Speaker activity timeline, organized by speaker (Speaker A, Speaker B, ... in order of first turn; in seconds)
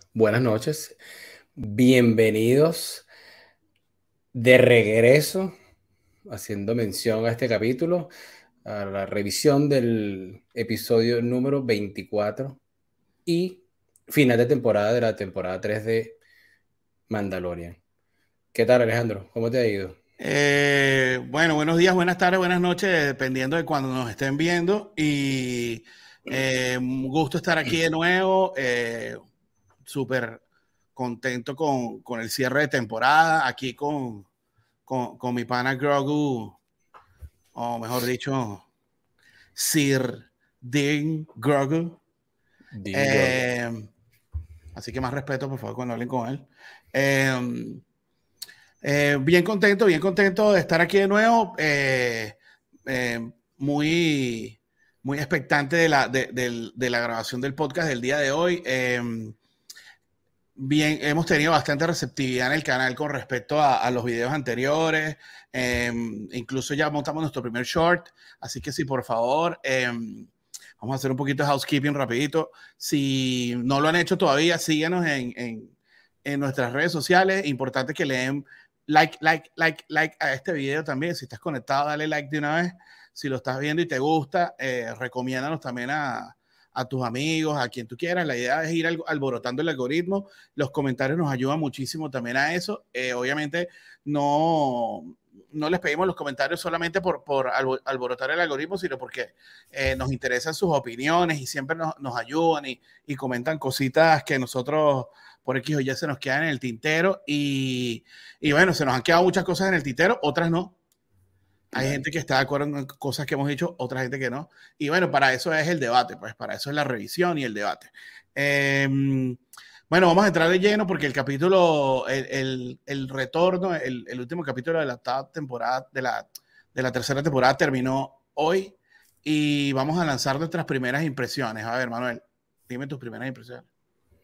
Speaker A: 0.1-1.0, 1.6-3.1, 4.3-5.5, 6.3-8.1, 8.7-12.6, 13.2-16.2, 17.1-17.8, 18.5-20.0, 42.8-43.4, 111.7-112.0
Speaker B: 20.2-29.2, 29.9-30.4, 31.0-34.3, 34.9-36.6, 37.5-38.7, 39.5-42.0, 42.9-43.9, 44.8-47.8, 48.8-59.4, 60.6-110.8, 111.7-133.7